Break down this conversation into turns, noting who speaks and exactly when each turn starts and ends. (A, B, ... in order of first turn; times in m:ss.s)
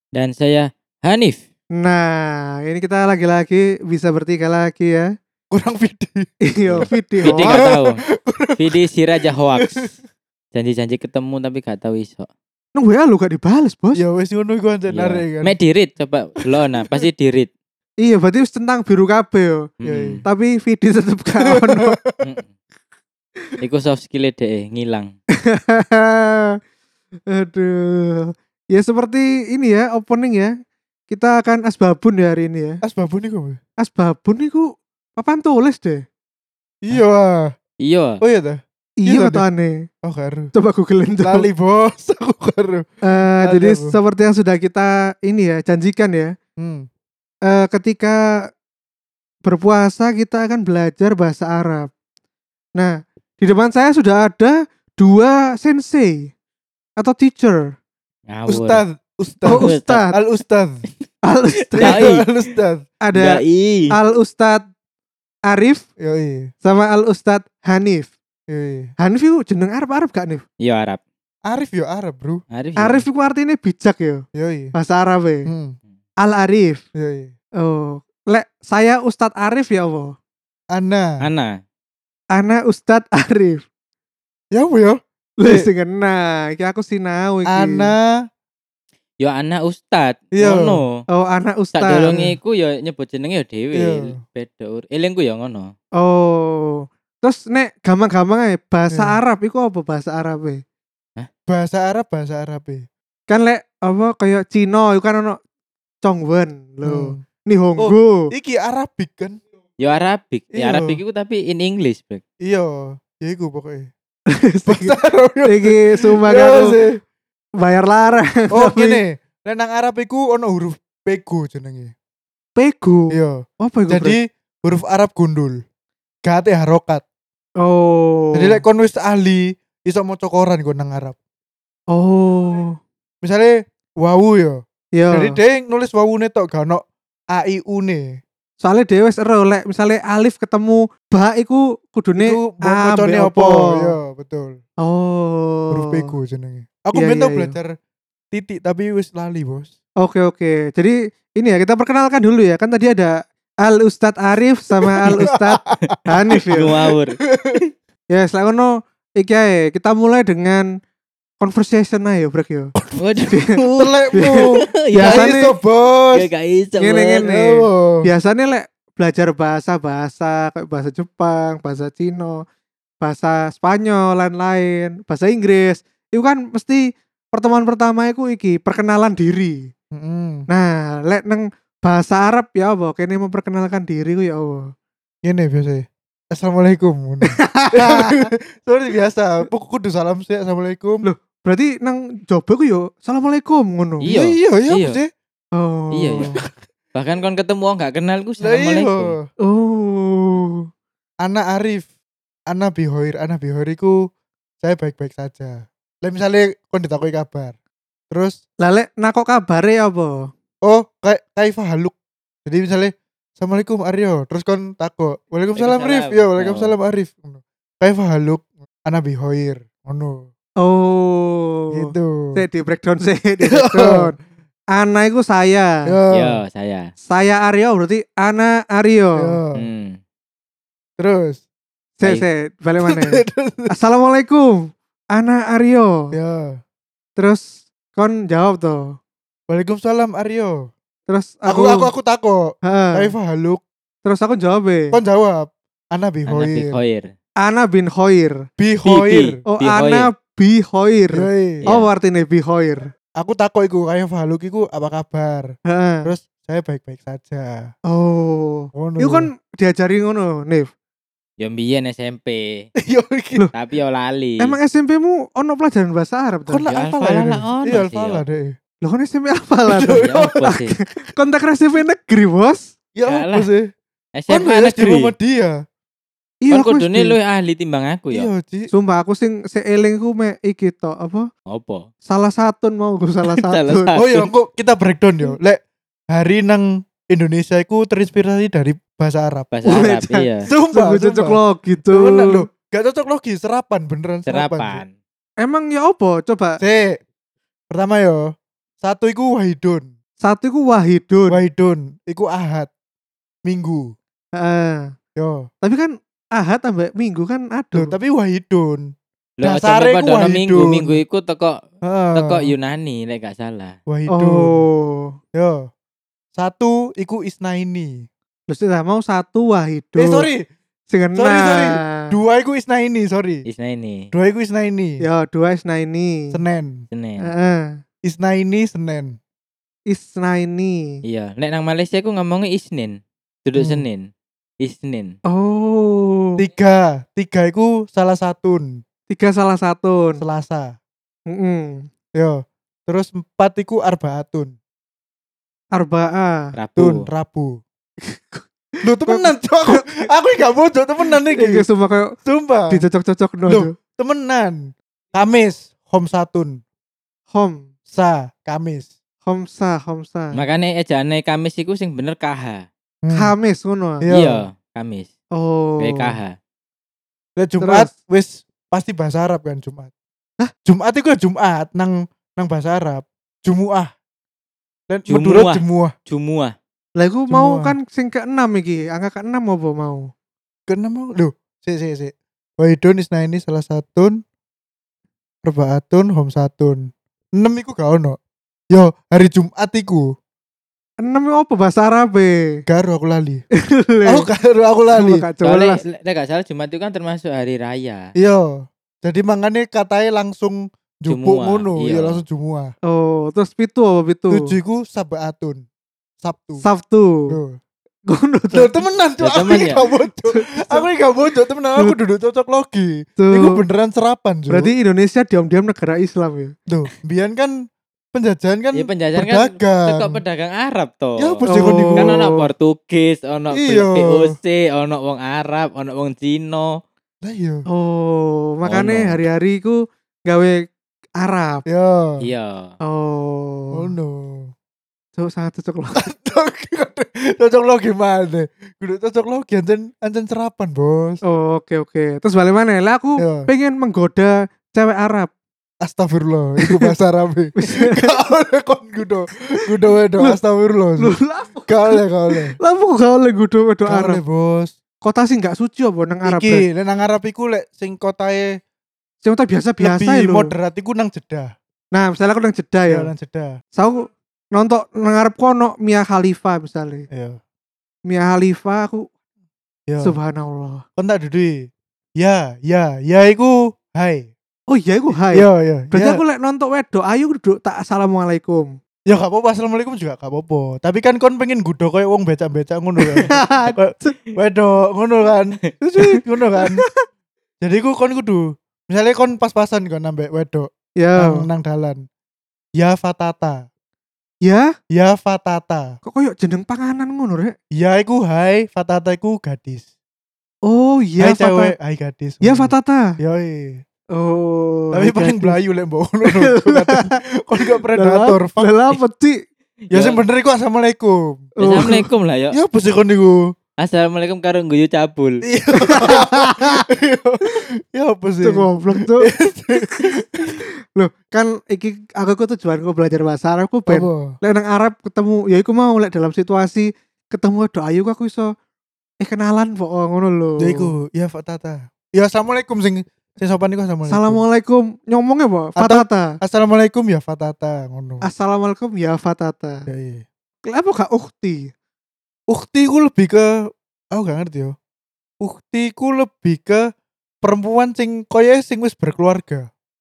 0:00.1-0:01.4 A
0:01.8-0:05.1 B
0:05.5-0:08.8 C
0:06.5-0:07.7 B
0:06.7-0:08.0 A
0:08.6-0:09.8 A
0:09.6-0:09.9 C
0:10.5-0:12.3 A
0:12.8-0:14.0 B
0:14.0-0:15.5 C
0:14.9-0:17.5 A
0:18.0-0:19.6 B
0:19.8-0:20.2 A
0:19.8-0:20.2 C
0:20.2-0:22.0 B
0:21.5-0:22.2 C
0:22.2-0:22.5 A
0:23.6-0:25.1 A
0:25.5-0:26.5 B
0:27.3-0:30.5 B
0:31.1-0:32.8 B
0:32.8-0:33.6 C
0:33.8-0:36.0 B
0:36.8-0:37.5 C
0:37.8-0:38.2 A
0:38.2-0:39.4 C
0:39.0-0:39.7 B
0:40.0-0:40.5 C
0:40.5-0:41.4 B
0:41.2-0:42.8 C
0:43.0-0:46.3 B
0:43.4-0:44.0 C
0:46.6-0:46.9 C
0:47.5-0:48.2 B
0:49.4-0:51.9 B
0:52.8-0:56.3 B
0:57.0-0:57.8 B
0:58.3-0:58.8 A
0:58.5-1:00.7 C
0:59.5-1:00.0 A
0:59.5-1:00.1 B
1:01.2-1:02.1 B
1:01.8-1:02.2 A
1:01.8-1:02.8 C
1:03.0-1:04.6 B
1:03.1-1:03.9 A
1:05.5-1:05.8 B
1:06.0-1:06.5 C
1:06.6-1:08.1 B
1:08.5-1:08.9 C
1:09.0-1:10.4 B
1:10.6-1:11.0 A
1:11.5-1:12.4 C
1:12.5-1:13.0 A
1:12.8-1:14.2 B
1:14.3-1:14.7 C
1:14.8-1:15.5 B
1:15.5-1:15.8 C
1:16.2-1:16.8 B
1:16.9-1:17.3 C
1:17.6-1:20.2 B
1:20.7-1:21.2 C
1:21.2-1:21.5 A
1:22.3-1:23.6 B
1:24.5-1:25.7 C
1:25.4-1:27.9 B
1:27.5-1:28.1 C
1:29.2-1:30.9 A
1:30.3-1:30.8 C
1:31.1-1:32.2 B
1:31.8-1:35.7 A
1:33.7-1:34.2 C
1:36.0-1:40.6 B
1:38.9-1:39.2 C
1:41.5-1:42.8 C
1:43.3-1:45.4 B
1:46.0-1:48.3 B
1:46.8-1:47.2 C
1:47.8-1:49.4 C
1:49.8-1:52.2 A
1:50.5-1:51.0 C
1:52.4-1:53.9 C
1:54.3-1:56.7 B
1:54.7-1:57.0 C
1:57.6-1:59.0 B
1:58.5-2:01.9 C
2:02.6-2:04.2 B
2:03.1-2:05.6 C
2:06.2-2:07.0 C
2:07.6-2:08.6 B
2:08.3-2:11.2 C
2:11.9-2:12.8 B
2:13.2-2:14.6 C
2:15.0-2:15.4 B
2:15.1-2:18.0 C
2:18.6-2:23.9 B
2:22.2-2:24.6 C
2:24.8-2:26.0 B
2:25.7-2:27.7 C
2:26.9-2:27.5 B
2:28.3-2:29.7 C
2:30.0-2:36.7 B
2:35.0-2:36.4 C
2:36.4-2:37.2 A
2:37.3-2:37.6 C
2:38.1-2:40.7 B
2:41.4-2:42.7 B
2:43.0-2:45.3 A
2:43.3-2:43.6 B
2:43.7-2:46.3 C
2:44.1-2:45.5 B
2:46.1-2:47.2 A
2:46.8-2:52.4 B
2:47.2-2:48.0 C
2:53.0-2:59.7 B
2:59.9-3:00.4 C
3:00.5-3:04.6 B
3:05.2-3:11.0 C
3:07.3-3:08.3 B
3:11.0-3:14.1 B
3:14.0-3:15.0 A
3:14.1-3:15.1 C
3:15.6-3:16.3 B
3:15.9-3:16.3 A
3:16.2-3:16.5 C
3:16.9-3:19.1 A
3:18.4-3:19.3 C
3:19.4-3:20.6 B
3:21.2-3:21.9 C
3:22.5-3:24.0 C
3:24.6-3:27.5 C
3:28.1-3:28.4 C
3:28.6-3:30.3 B
3:30.6-3:31.9 C
3:32.4-3:40.3 C
3:35.6-3:36.7 A
3:40.6-3:44.1 B
3:41.7-3:42.4 C
3:43.4-3:44.1 C
3:44.7-3:45.7 B
3:45.9-3:46.4 C
3:46.1-3:46.9 A
3:47.1-3:49.3 B
3:49.2-3:49.7 C
3:49.6-3:50.0 A
3:51.0-3:51.4 C
3:52.0-3:54.5 B
3:52.8-3:53.7 C
3:55.1-3:56.1 B
3:56.1-3:56.6 C
3:57.2-3:58.8 B
3:59.5-4:00.7 C
4:01.1-4:01.9 B
4:01.5-4:03.6 C
4:02.7-4:03.1 B
4:04.0-4:04.9 B
4:04.9-4:06.8 C
4:06.3-4:07.1 A
4:07.4-4:08.4 B
4:08.6-4:09.4 C
4:08.8-4:10.1 A
4:09.5-4:12.9 B
4:11.1-4:11.6 C
4:11.6-4:11.9 A
4:13.2-4:15.5 C
4:15.7-4:16.1 B
4:16.0-4:17.7 C
4:17.9-4:20.7 B
4:18.8-4:19.3 C
4:21.4-4:22.6 A
4:22.8-4:23.4 C
4:23.5-4:24.6 A
4:24.4-4:26.6 B
4:26.5-4:28.5 C
4:26.7-4:28.2 A
4:28.8-4:32.7 B
4:29.7-4:30.5 C
4:30.0-4:30.7 A
4:32.9-4:33.7 C
4:33.1-4:33.5 A
4:34.2-4:35.1 A
4:34.3-4:35.6 C
4:36.4-4:37.2 B
4:36.5-4:38.3 A
4:38.1-4:38.7 C
4:38.7-4:41.3 B
4:41.5-4:41.9 A
4:42.0-4:44.0 B
4:43.3-4:44.3 A
4:44.0-4:49.6 C
4:49.5-4:50.5 A
4:49.6-4:52.5 B
4:50.5-4:54.8 C
4:54.3-4:54.9 A
4:55.4-4:56.6 B
4:56.6-4:57.0 C
4:57.7-4:58.3 C
4:58.8-4:59.9 C
5:00.2-5:01.4 B
5:01.3-5:02.7 C
5:03.4-5:03.9 C
5:04.4-5:04.9 B
5:05.2-5:05.5 C
5:05.6-5:07.9 B
5:07.7-5:08.9 C
5:09.4-5:11.6 A
5:09.4-5:11.0 C
5:11.8-5:12.5 C
5:12.1-5:13.8 A
5:13.9-5:14.6 C
5:14.1-5:15.1 B
5:15.3-5:15.7 C
5:16.4-5:18.0 C
5:18.5-5:20.3 B
5:20.0-5:20.4 C
5:20.9-5:22.1 B
5:21.2-5:23.4 C
5:23.5-5:24.1 A
5:24.1-5:25.0 C
5:25.0-5:26.4 B
5:26.3-5:26.8 C
5:26.9-5:27.3 A
5:27.2-5:27.8 B
5:28.0-5:29.2 C
5:29.9-5:30.9 B
5:31.0-5:34.1 A
5:33.6-5:33.8 C
5:34.6-5:35.1 A
5:35.3-5:36.4 B
5:36.4-5:38.8 C
5:39.1-5:40.2 B
5:40.2-5:40.7 C
5:41.3-5:41.8 B
5:42.2-5:44.5 C
5:45.7-5:46.4 B
5:46.5-5:47.0 A
5:46.8-5:47.6 C
5:48.0-5:48.4 B
5:48.8-5:51.6 C
5:49.0-5:50.0 B
5:51.1-5:52.1 B
5:52.2-5:52.8 C
5:52.7-5:53.7 B
5:53.5-5:56.6 C
5:57.3-5:57.7 B
5:57.9-5:58.9 C
5:59.2-6:00.4 B
6:00.3-6:02.6 A
6:03.0-6:03.3 C
6:03.1-6:04.0 B
6:04.0-6:04.4 C
6:04.1-6:05.1 A
6:05.4-6:06.2 B
6:05.8-6:06.4 A
6:07.4-6:09.9 C
6:07.6-6:07.9 B
6:10.6-6:13.9 C
6:14.9-6:15.9 C
6:15.1-6:16.5 A
6:17.0-6:20.1 B
6:17.3-6:17.7 C
6:20.7-6:24.2 C
6:25.4-6:28.2 C
6:28.7-6:30.1 C
6:31.0-6:32.3 B
6:32.7-6:33.4 C
6:33.7-6:34.3 B
6:34.0-6:35.2 C
6:34.9-6:35.8 B
6:35.4-6:38.1 A
6:38.2-6:42.7 C
6:41.1-6:42.2 A
6:42.9-6:44.5 B
6:44.3-6:45.6 C
6:46.2-6:46.6 C
6:46.6-6:47.4 B
6:47.3-6:47.6 C
6:48.1-6:48.8 B
6:48.5-6:54.7 C
6:49.2-6:49.8 A
6:50.2-6:50.8 B
6:53.2-6:53.6 B
6:54.5-6:56.5 B
6:56.7-6:57.6 C
6:58.1-7:00.2 C
6:58.7-7:06.7 A
7:01.2-7:02.1 C
7:01.5-7:02.4 B
7:03.5-7:04.3 C
7:07.2-7:07.6 C
7:07.7-7:10.6 B
7:08.6-7:09.2 A
7:11.2-7:11.6 B
7:11.7-7:12.2 C
7:12.2-7:12.7 A
7:12.8-7:13.9 B
7:13.7-7:14.5 C
7:15.2-7:16.0 B
7:15.9-7:21.2 C
7:21.3-7:25.3 B
7:23.2-7:23.5 C
7:25.8-7:31.1 C
7:27.6-7:28.1 B
7:31.0-7:34.2 B
7:31.7-7:32.5 C
7:33.9-7:34.7 C
7:35.0-7:36.6 B
7:36.2-7:38.6 C
7:39.2-7:40.5 B
7:39.8-7:41.5 C
7:41.9-7:43.1 B
7:42.9-7:43.5 C
7:43.8-7:47.1 B
7:47.1-7:47.4 C
7:48.1-7:49.1 B
7:49.9-7:50.1 C
7:50.0-7:50.8 B
7:51.0-7:54.3 C
7:54.7-7:58.7 B
7:55.3-7:56.2 C
7:59.1-8:06.8 C
8:03.0-8:04.2 B
8:06.0-8:07.0 B
8:07.6-8:12.0 C
8:11.0-8:11.4 B
8:12.8-8:13.6 C
8:14.9-8:15.9 C
8:16.0-8:17.5 B
8:17.7-8:19.8 C
8:20.6-8:21.7 B
8:21.2-8:23.8 C
8:22.4-8:23.0 B
8:24.2-8:25.6 B
8:24.9-8:28.7 C
8:26.3-8:27.1 B
8:27.9-8:29.3 B
8:29.9-8:30.2 A
8:29.9-8:31.9 C
8:31.6-8:32.5 A
8:31.6-8:32.0 B
8:32.5-8:33.4 C
8:33.8-8:35.4 A
8:35.4-8:40.6 C
8:35.8-8:36.8 B
8:38.4-8:40.1 B
8:41.0-8:48.5 B
8:43.9-8:44.3 C
8:49.2-8:50.9 B
8:50.6-8:54.4 C
8:54.1-8:56.3 B
8:55.8-8:58.2 C
8:58.2-8:59.9 B
8:59.9-9:00.2 C
9:00.6-9:01.7 B
9:02.5-9:03.6 C
9:04.1-9:04.7 C
9:05.4-9:06.8 C
9:07.4-9:09.7 C